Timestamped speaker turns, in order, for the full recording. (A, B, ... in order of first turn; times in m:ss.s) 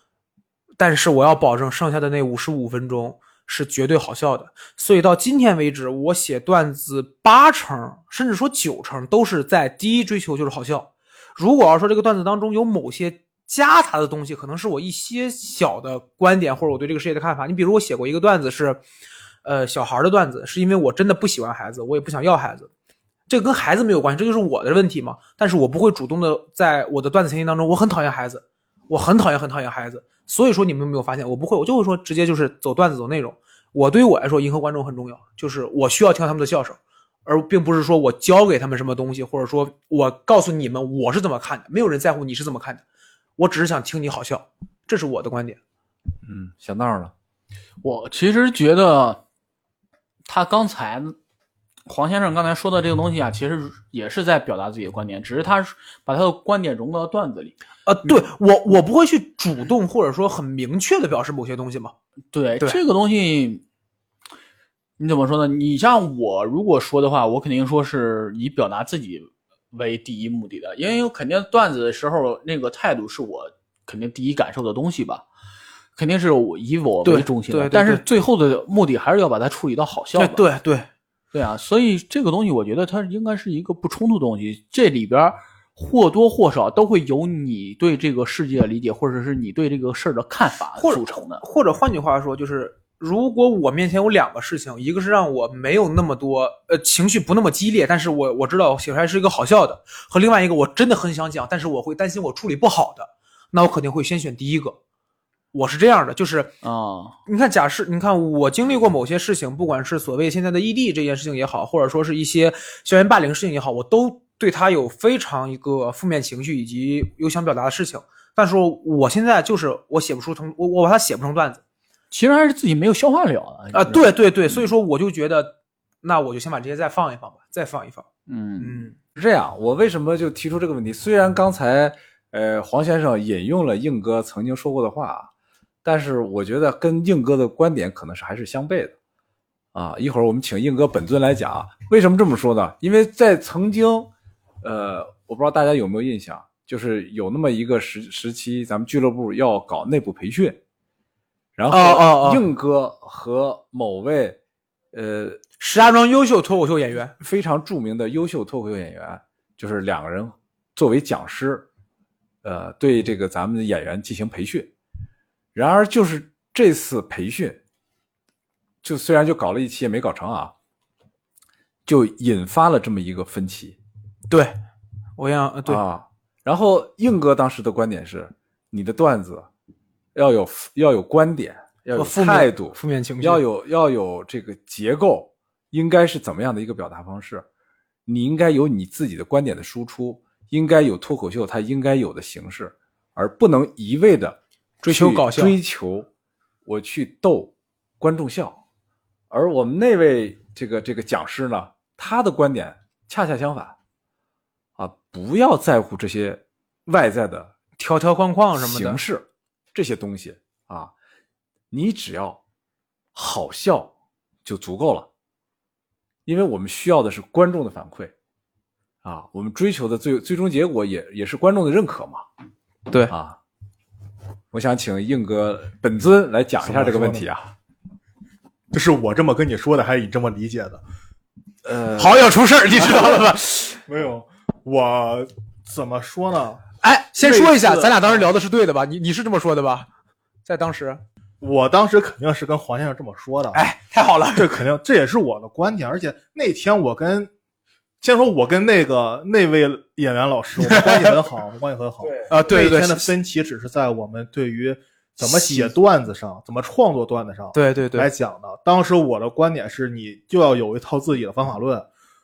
0:00.8-0:18.8 A
0:19.4-0:22.7 A
0:23.3-0:42.8 A
0:43.4-0:45.6 A
0:46.2-0:47.1 B
0:47.8-0:49.2 C
0:50.2-0:51.2 C
0:51.9-0:57.5 C
0:57.8-1:01.9 A
1:02.3-1:03.6 C
1:05.0-1:15.2 C
1:16.0-1:20.4 C
1:17.0-1:18.0 A
1:20.1-1:20.9 A
1:21.3-1:31.4 C
1:30.8-1:44.7 A
1:45.5-1:46.5 A
1:46.6-1:47.2 C
1:47.3-2:01.6 A
2:02.1-2:04.0 C
2:03.7-2:08.0 A
2:08.3-2:08.9 C
2:08.6-2:09.0 A
2:09.2-2:15.3 B
2:15.8-2:18.9 B
2:19.7-2:24.1 B
2:24.6-2:30.6 B
2:31.6-2:34.4 B
2:31.7-2:32.4 A
2:34.9-2:35.4 B
2:35.6-2:37.1 A
2:37.2-2:41.6 B
2:42.4-2:44.7 B
2:45.5-2:47.6 B
2:48.8-2:50.5 B
2:51.8-2:53.8 B
2:54.3-2:54.5 A
2:55.2-2:55.8 A
2:55.6-2:59.5 B
3:00.1-3:07.4 B
3:01.9-3:03.4 A
3:08.0-3:16.1 B
3:14.8-3:15.6 A
3:16.6-3:18.6 B
3:19.3-3:23.7 B
3:24.8-3:27.5 B
3:27.8-3:29.0 A
3:28.6-3:30.9 B
3:31.7-3:32.4 B
3:33.1-3:33.9 B
3:34.4-3:35.1 B
3:36.2-3:38.1 B
3:39.0-3:42.2 B
3:43.1-3:43.4 B
3:44.5-3:47.5 B
3:46.6-3:47.3 D
3:48.7-3:50.8 D
3:51.6-3:52.4 B
3:52.0-3:53.8 A
3:53.8-3:56.6 D
3:56.8-3:59.9 A
3:57.2-3:58.3 D
4:00.4-4:01.0 A
4:01.4-4:03.6 D
4:03.5-4:04.5 A
4:04.3-4:07.3 D
4:08.0-4:21.9 D
4:10.6-4:11.2 A
4:12.0-4:12.3 B
4:12.3-4:13.1 A
4:15.2-4:15.7 A
4:17.5-4:18.1 A